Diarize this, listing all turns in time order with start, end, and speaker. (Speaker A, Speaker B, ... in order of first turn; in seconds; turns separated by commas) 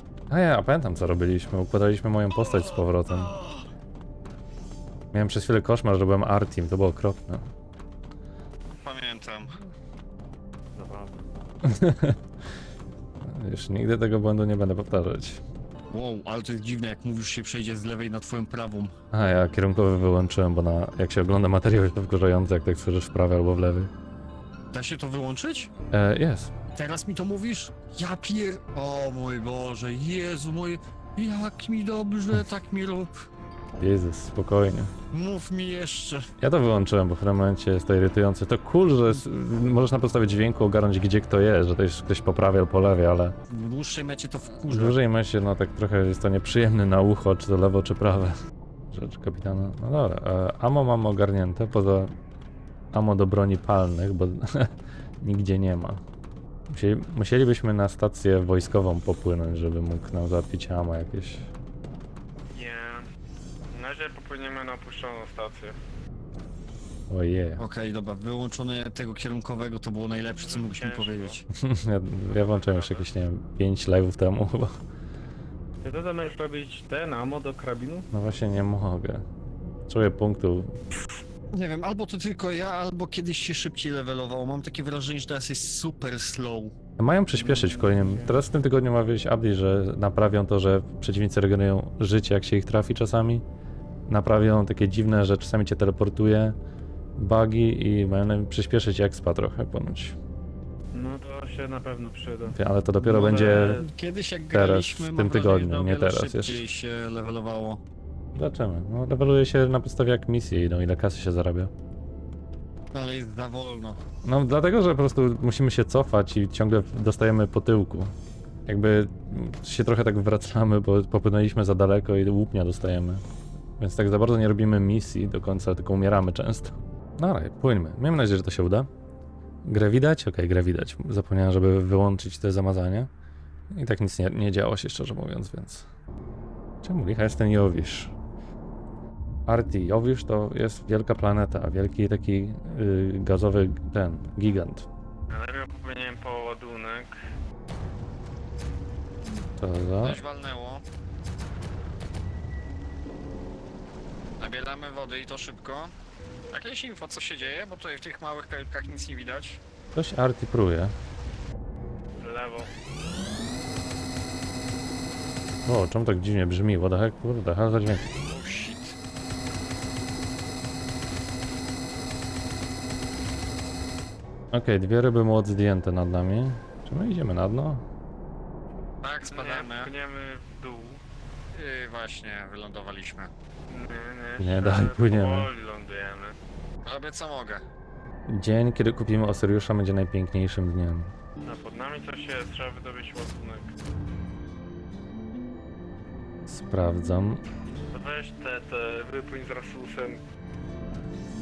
Speaker A: 0.3-3.4, Speaker A: 5.1-7.5, Speaker B: 8.8-9.6, Speaker C: 10.8-11.1, Speaker A: 11.6-12.2, Speaker A: 13.2-15.4, Speaker B: 15.9-18.9, Speaker A: 19.1-23.9, Speaker B: 24.7-25.7, Speaker A: 25.9-26.5, Speaker B: 26.7-33.1, Speaker A: 33.8-34.9, Speaker B: 35.1-36.3, Speaker A: 36.4-43.4, Speaker B: 43.5-45.0, Speaker A: 44.6-48.4, Speaker A: 48.9-52.1, Speaker A: 52.9-56.0, Speaker A: 56.7-61.5, Speaker C: 62.5-63.1, Speaker C: 63.7-65.8, Speaker A: 67.1-67.6, Speaker B: 67.6-71.4, Speaker C: 70.3-71.4, Speaker A: 71.5-74.8, Speaker C: 72.3-73.1, Speaker C: 75.8-78.1, Speaker A: 78.1-79.2, Speaker A: 79.9-80.8, Speaker B: 81.5-86.8, Speaker A: 87.0-93.5, Speaker C: 87.4-88.4, Speaker A: 94.1-96.6, Speaker A: 97.2-100.2, Speaker C: 100.9-102.6, Speaker A: 102.5-103.8, Speaker B: 103.0-107.8, Speaker C: 103.2-103.9, Speaker A: 104.5-106.7, Speaker A: 108.3-111.7, Speaker B: 112.9-114.0, Speaker A: 114.2-118.1, Speaker A: 118.7-123.2, Speaker A: 123.8-128.9, Speaker A: 129.6-133.1, Speaker A: 133.7-135.9, Speaker A: 136.8-138.1, Speaker A: 139.5-144.9, Speaker C: 145.3-147.2, Speaker A: 149.6-150.2, Speaker B: 150.0-150.8, Speaker B: 154.4-155.9, Speaker B: 156.5-159.6, Speaker A: 159.9-160.9, Speaker C: 162.2-162.7, Speaker A: 165.7-168.1, Speaker B: 168.3-169.0, Speaker A: 174.5-177.8, Speaker B: 179.0-179.9, Speaker C: 179.3-181.0, Speaker B: 181.5-183.3, Speaker C: 183.7-186.4, Speaker A: 184.4-185.5, Speaker B: 186.8-187.7, Speaker A: 188.3-191.1, Speaker C: 191.4-193.7, Speaker A: 196.5-197.4, Speaker C: 197.9-200.2